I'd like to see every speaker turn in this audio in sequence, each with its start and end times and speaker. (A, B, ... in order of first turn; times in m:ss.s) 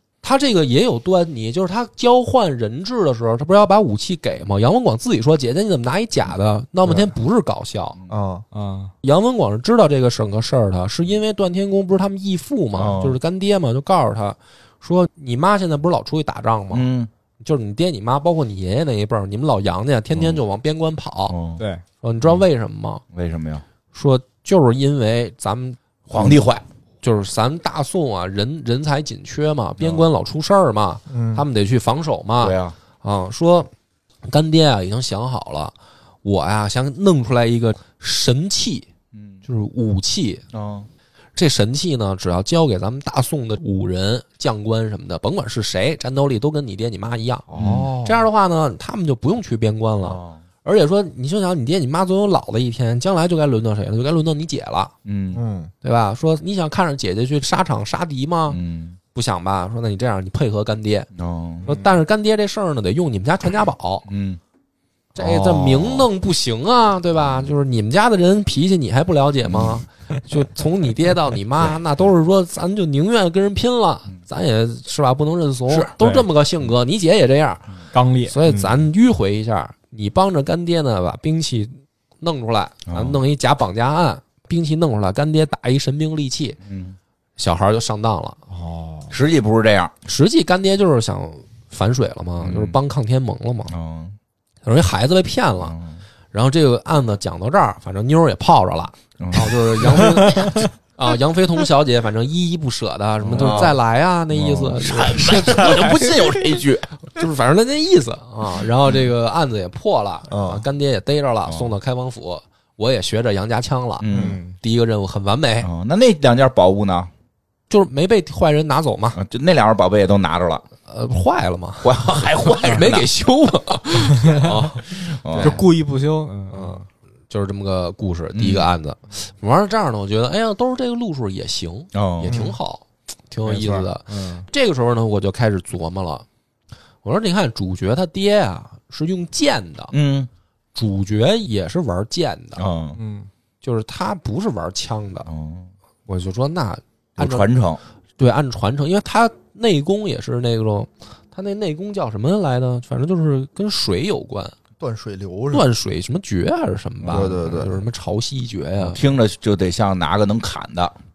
0:00.2-0:08.0 A
0:08.1-0:08.4 B
0:08.5-0:08.9 C
0:09.0-0:16.9 A
0:12.8-0:13.2 D
0:16.7-0:17.1 D
0:17.4-0:21.4 A
0:20.1-0:20.4 D
0:21.3-0:21.6 D
0:22.0-0:23.0 A
0:23.1-0:23.6 D
0:23.9-0:25.8 A
0:26.1-0:26.6 D
0:27.0-0:33.7 A
0:31.1-0:31.4 B
0:32.4-0:32.8 D
0:34.2-0:38.9 A
0:39.1-0:39.4 D
0:39.5-0:40.4 A
0:40.5-0:40.9 D
0:41.4-0:47.5 A
0:47.5-0:48.3 B
0:47.6-0:47.9 D
0:48.0-0:54.9 A
0:50.0-0:50.4 D
0:55.0-0:55.4 D
0:55.3-0:55.7 B
0:55.8-0:58.6 A
0:58.5-0:59.0 D
0:59.1-1:01.1 A
1:01.2-1:01.7 D
1:01.7-1:04.0 A
1:04.1-1:04.4 D
1:05.2-1:17.7 A
1:05.2-1:06.1 D
1:09.5-1:09.8 D
1:16.0-1:16.3 C
1:17.9-1:18.8 C
1:18.2-1:26.6 A
1:22.9-1:23.2 D
1:26.6-1:27.0 D
1:27.4-1:28.4 A
1:28.5-1:29.1 B
1:29.1-1:29.9 D
1:30.0-1:33.7 A
1:32.4-1:32.8 D
1:33.7-1:34.2 D
1:34.6-1:35.8 A
1:35.6-1:36.0 D
1:36.3-1:46.1 A
1:39.2-1:40.2 D
1:40.0-1:40.5 C
1:43.2-1:43.8 D
1:44.3-1:46.9 D
1:47.1-1:55.7 A
1:50.3-1:50.6 B
1:51.5-1:51.8 D
1:54.0-1:54.4 D
1:54.1-1:54.4 B
1:54.1-1:54.5 C
1:55.6-1:57.1 D
1:57.7-1:59.2 A
1:59.2-2:00.6 D
2:00.9-2:05.6 A
2:01.8-2:03.1 D
2:04.9-2:05.6 D
2:05.4-2:06.8 C
2:06.5-2:16.2 A
2:08.3-2:08.7 D
2:11.9-2:12.5 D
2:12.3-2:12.6 B
2:13.5-2:14.5 C
2:17.0-2:19.9 A
2:19.9-2:20.3 D
2:20.8-2:22.6 A
2:22.6-2:23.0 D
2:23.0-2:23.3 C
2:23.6-2:25.3 A
2:25.3-2:25.7 D
2:26.1-2:27.5 A
2:27.2-2:27.8 D
2:28.2-2:34.6 A
2:34.8-2:35.7 B
2:35.5-2:39.0 A
2:37.0-2:37.5 D
2:37.1-2:37.8 B
2:38.8-2:41.0 D